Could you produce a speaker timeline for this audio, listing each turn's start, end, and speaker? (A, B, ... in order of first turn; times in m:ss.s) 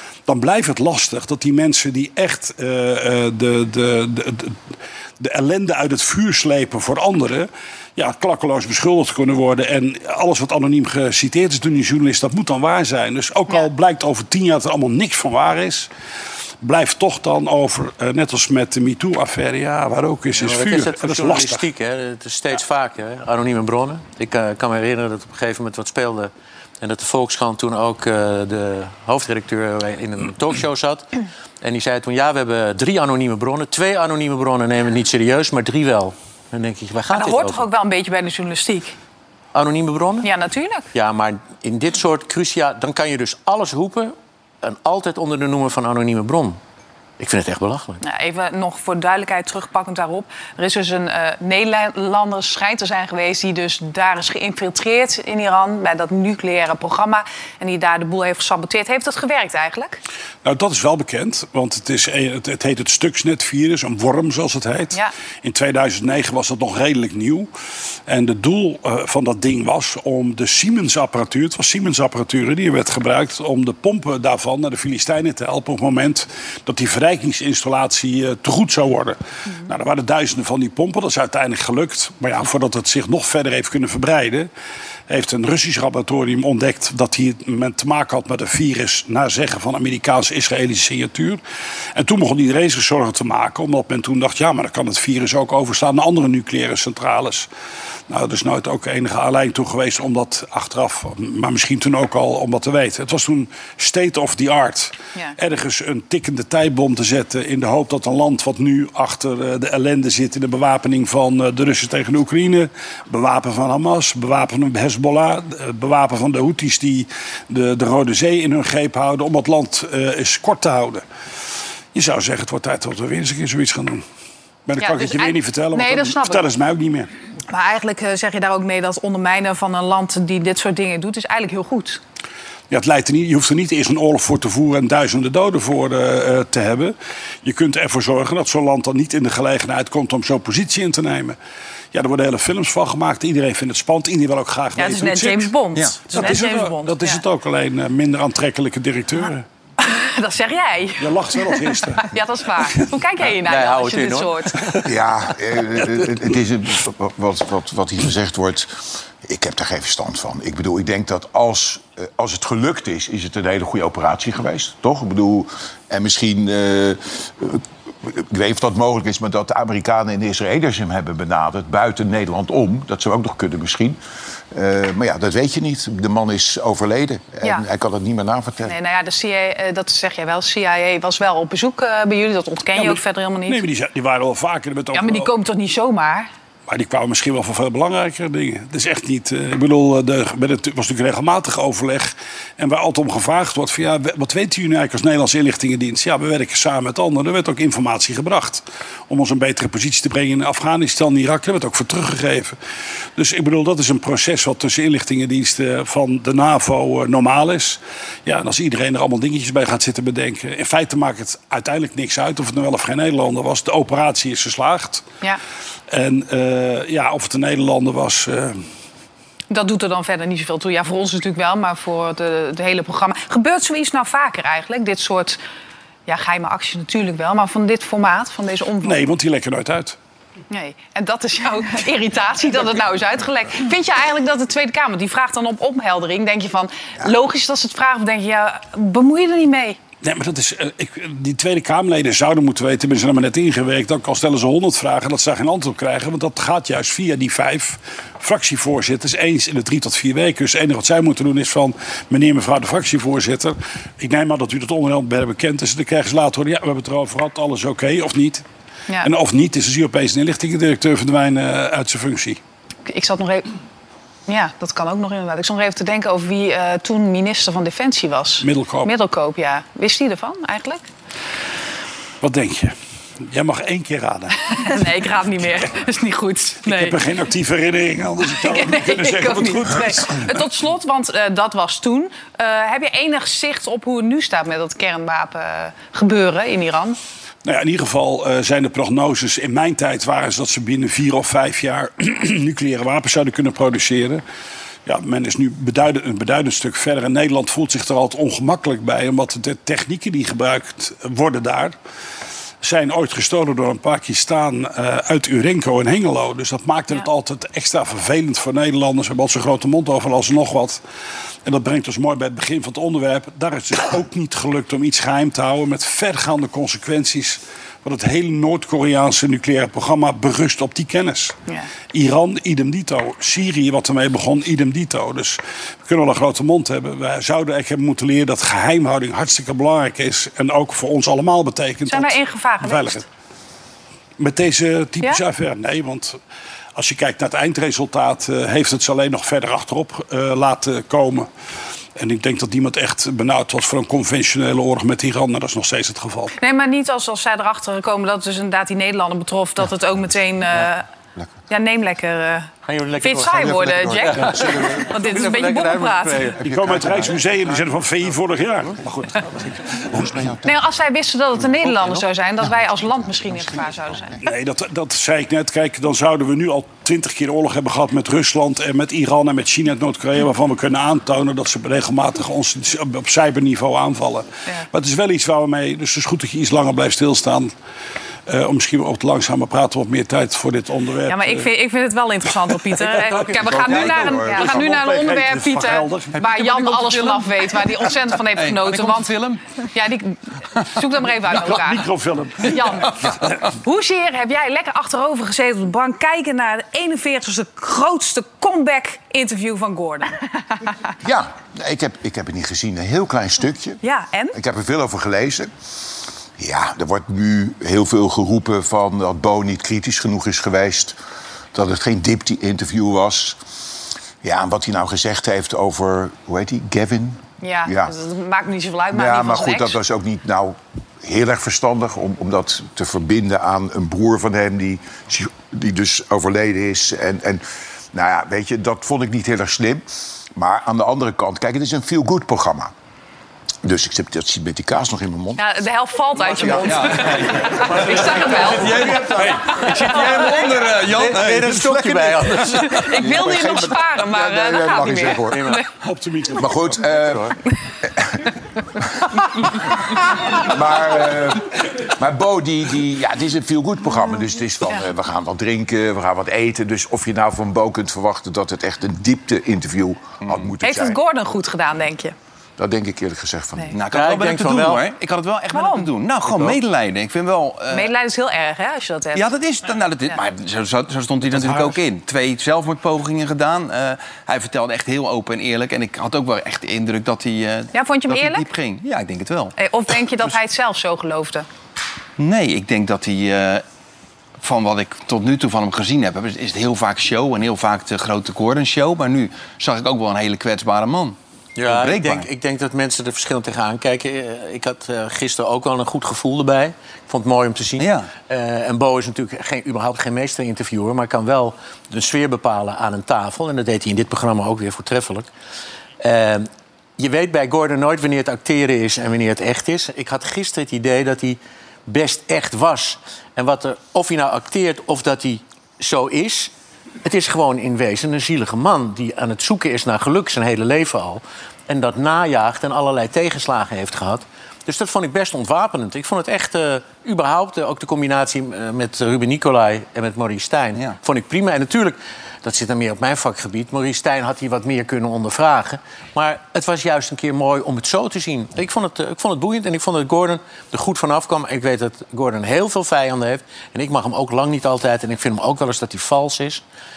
0:00.3-0:04.6 A
0:05.2-0:15.9 A
0:16.6-0:21.7 A
0:20.4-0:31.1 B
0:31.6-0:37.7 B
0:37.1-0:39.0 C
0:39.5-0:40.3 B
0:40.2-0:40.9 C
0:40.9-0:46.6 B
0:47.2-0:48.0 B
0:48.0-1:00.0 C
1:00.4-1:07.5 A
1:08.1-1:24.5 A
1:25.1-1:31.4 A
1:32.0-1:37.5 A
1:38.1-2:01.0 A
2:01.9-2:04.0 A
2:04.7-2:07.1 A
2:04.8-2:06.5 C
2:07.5-2:12.0 C
2:12.7-2:21.4 A
2:21.9-2:25.6 A
2:24.8-2:27.2 C
2:25.8-2:26.1 D
2:26.1-2:29.4 A
2:29.8-2:34.6 C
2:31.0-2:32.2 A
2:33.5-2:34.8 B
2:34.8-2:54.0 E
2:54.5-2:58.8 E
2:58.7-3:03.6 C
3:02.8-3:05.3 A
3:04.9-3:06.3 C
3:06.7-3:22.6 A
3:23.2-3:35.0 A
3:35.9-3:38.6 A
3:39.5-3:45.4 C
3:46.1-3:49.0 C
3:48.8-3:50.0 A
3:50.5-3:59.8 C
4:00.0-4:18.4 A
4:19.0-4:22.4 A
4:22.9-4:23.5 C
4:24.3-4:30.8 C
4:28.4-4:28.9 A
4:32.2-4:32.7 A
4:33.3-4:34.8 A
4:34.5-4:37.0 C
4:36.6-4:40.4 A
4:38.3-4:47.0 C
4:47.4-4:54.2 A
4:54.9-5:01.8 A
5:02.6-5:10.8 A
5:11.4-5:21.4 A
5:21.9-5:33.0 A
5:31.9-5:33.0 C
5:34.2-5:36.2 A
5:36.8-5:41.3 A
5:42.0-5:46.4 A
5:46.4-5:50.9 C
5:51.5-5:56.4 C
5:52.6-5:57.0 B
5:53.3-5:54.9 E
5:56.4-6:00.3 A
5:56.6-5:57.0 E
6:00.4-6:04.2 C
6:04.2-6:17.5 A
6:18.3-6:21.5 A
6:21.1-6:31.9 C
6:22.3-6:27.0 A
6:23.3-6:24.7 E
6:26.7-6:29.4 D
6:31.2-6:33.4 A
6:32.4-6:33.0 C
6:33.6-6:40.7 C
6:41.0-6:43.8 E
6:43.8-6:44.4 C
6:44.3-6:45.5 E
6:46.4-6:51.0 E
6:51.5-6:53.4 E
6:54.2-6:58.0 E
6:57.4-6:59.8 C
6:58.9-7:12.7 E
7:13.6-7:15.4 E
7:15.4-7:20.6 C
7:16.3-7:22.9 D
7:17.5-7:22.8 B
7:22.7-7:25.7 C
7:22.9-7:25.5 E
7:25.2-7:25.6 B
7:25.8-7:26.9 A
7:26.4-7:29.2 E
7:26.9-7:27.3 B
7:30.3-7:41.0 E
7:40.6-7:42.2 C
7:42.6-7:43.8 E
7:43.7-7:47.9 D
7:43.9-7:44.9 B
7:45.5-7:45.9 C
7:46.3-7:46.6 B
7:47.7-7:49.3 C
7:49.2-7:59.5 D
7:57.7-7:58.5 C
7:59.6-8:01.5 C
8:02.2-8:03.6 D
8:04.4-8:12.3 D
8:11.6-8:25.3 B
8:17.8-8:18.1 D
8:26.0-8:36.5 B
8:37.0-9:06.6 B